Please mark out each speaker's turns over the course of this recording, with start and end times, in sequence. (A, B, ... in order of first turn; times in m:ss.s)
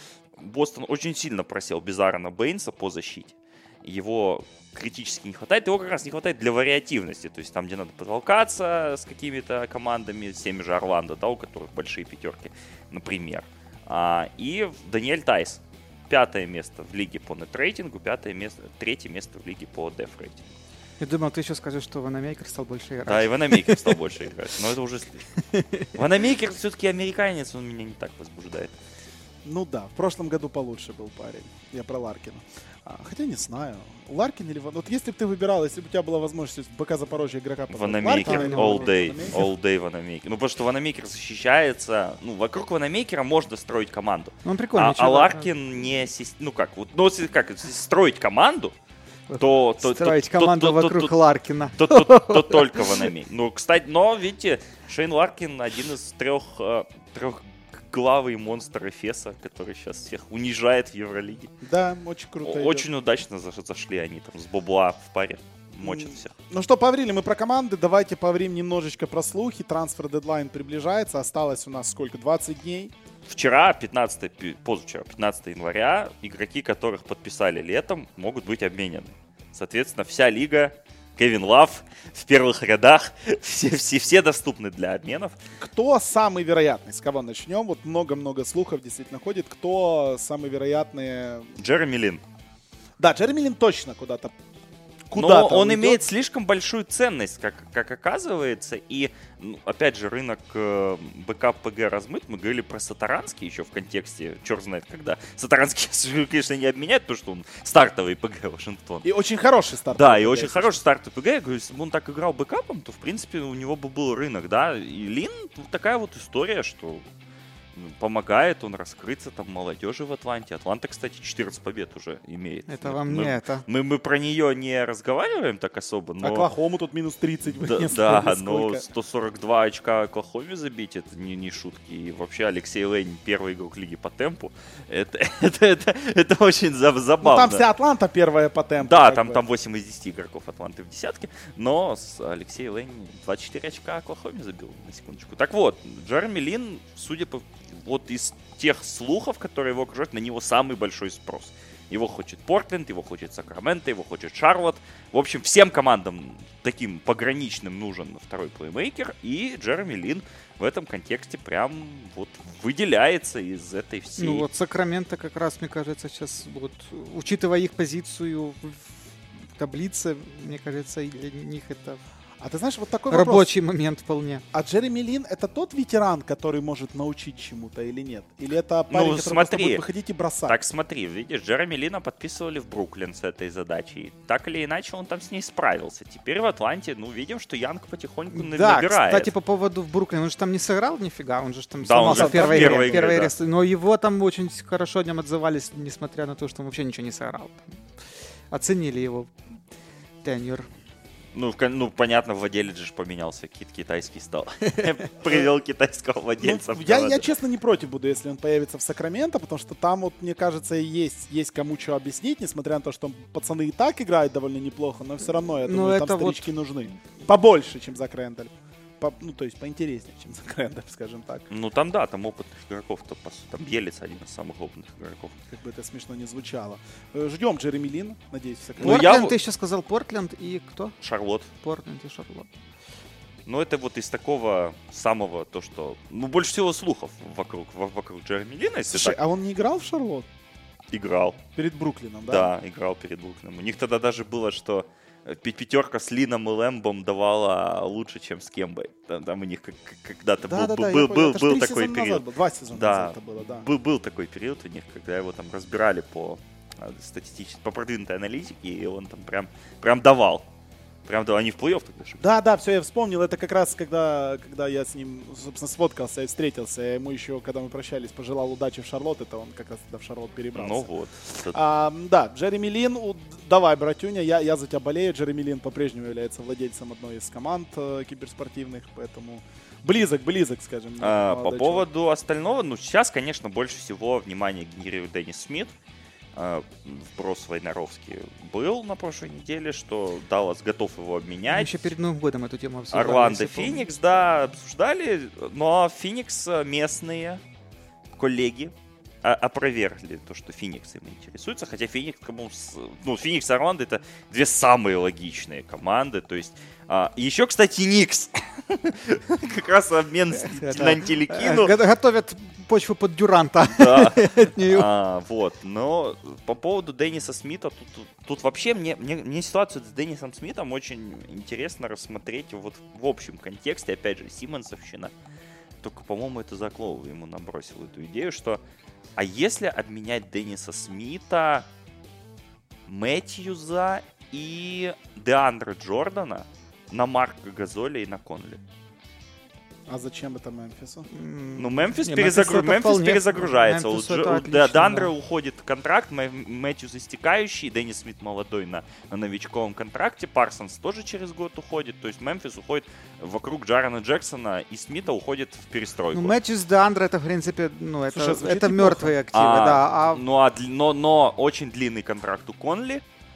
0:00.3-0:20.5 A
0:21.0-0:24.0 B
0:23.0-0:25.2 A
0:25.5-0:25.9 B
0:25.9-0:28.7 A
0:29.4-0:39.4 C
0:37.7-0:48.7 A
0:38.1-0:39.4 B
0:44.4-0:45.5 B
0:49.3-0:53.0 B
0:49.4-0:51.1 A
0:51.8-1:01.5 A
1:01.6-1:02.9 C
1:02.4-1:06.3 A
1:05.8-1:12.9 C
1:13.2-1:25.4 A
1:25.6-1:31.5 C
1:31.6-1:32.2 A
1:33.0-1:34.3 C
1:35.1-1:36.0 C
1:35.1-1:49.0 A
1:49.0-1:50.8 C
1:49.9-1:57.1 A
1:57.7-2:06.5 A
2:02.7-2:03.6 B
2:06.2-2:08.9 C
2:07.6-2:17.6 A
2:17.2-2:19.4 C
2:18.8-2:44.5 A
2:44.2-2:48.9 B
2:49.5-2:52.0 B
2:52.4-2:53.5 C
2:53.1-2:54.4 B
2:54.5-3:00.6 C
2:58.9-2:59.8 A
3:00.5-3:09.3 A
3:08.3-3:17.7 B
3:11.8-3:13.3 A
3:12.0-3:13.0 C
3:18.5-3:19.3 B
3:20.2-3:20.7 B
3:21.3-3:27.3 A
3:26.4-3:41.5 C
3:35.6-3:36.5 B
3:41.5-3:45.3 A
3:45.5-3:49.3 C
3:48.8-3:49.4 A
3:48.8-3:51.0 B
3:51.0-3:51.5 A
3:51.6-3:52.5 B
3:53.4-3:59.2 A
3:58.9-4:00.2 C
4:00.9-4:01.4 A
4:01.6-4:02.5 C
4:02.3-4:20.5 A
4:10.4-4:13.7 C
4:21.0-4:22.2 A
4:22.2-4:30.9 C
4:30.5-4:31.6 A
4:31.5-4:41.8 C
4:41.0-4:45.7 A
4:46.3-4:51.7 A
4:51.5-4:53.9 B
4:52.9-4:57.4 A
4:58.2-5:11.8 A
5:10.5-5:14.9 B
5:13.7-5:25.1 A
5:25.8-5:28.6 A
5:29.2-5:31.7 A
5:32.8-5:38.6 A
5:39.9-5:41.1 C
5:41.1-5:45.1 B
5:41.6-5:56.4 A
5:56.1-6:00.2 B
5:58.1-5:59.1 C
5:59.3-6:03.0 A